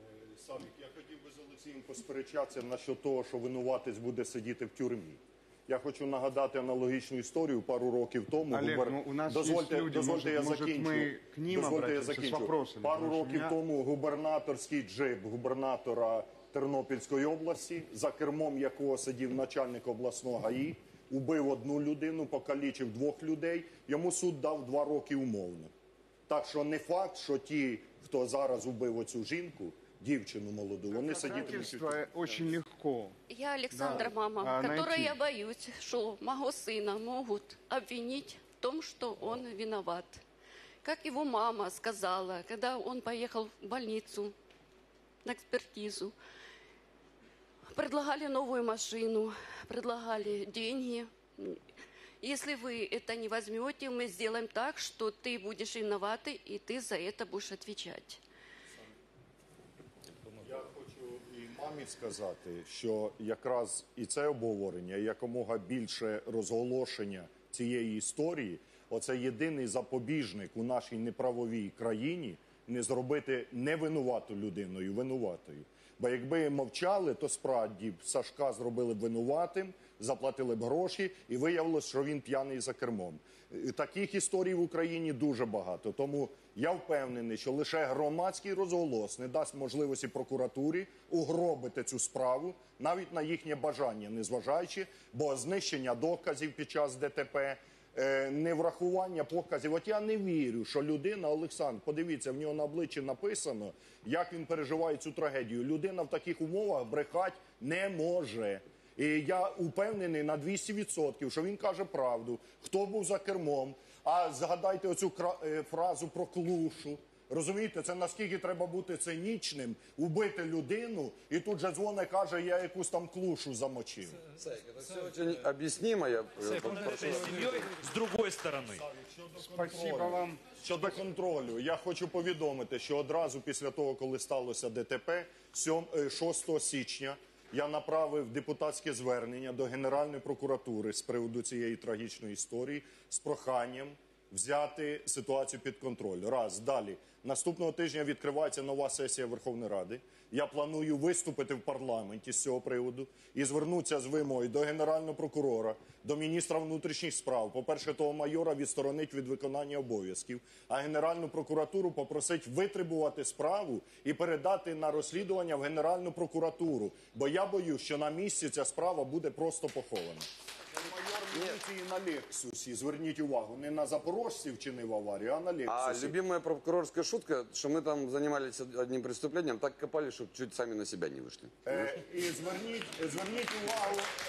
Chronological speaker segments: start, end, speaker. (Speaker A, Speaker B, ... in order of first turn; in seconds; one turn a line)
Speaker A: 0.3-25.7
Speaker B: 8.5-13.5
Speaker A: 26.3-32.5
Speaker B: 30.9-33.1
Speaker C: 33.3-40.2
Speaker B: 33.7-35.2
Speaker C: 40.8-44.3
Speaker C: 45.2-46.1
Speaker C: 47.7-51.6
Speaker C: 52.2-58.2
Speaker A: 60.4-124.2
Speaker D: 124.4-127.8
Speaker E: 126.5-128.8
Speaker A: 128.6-176.2
Speaker B: 129.4-130.4
Speaker D: 171.3-171.6
Speaker D: 175.7-181.9
Speaker A: 181.6-184.1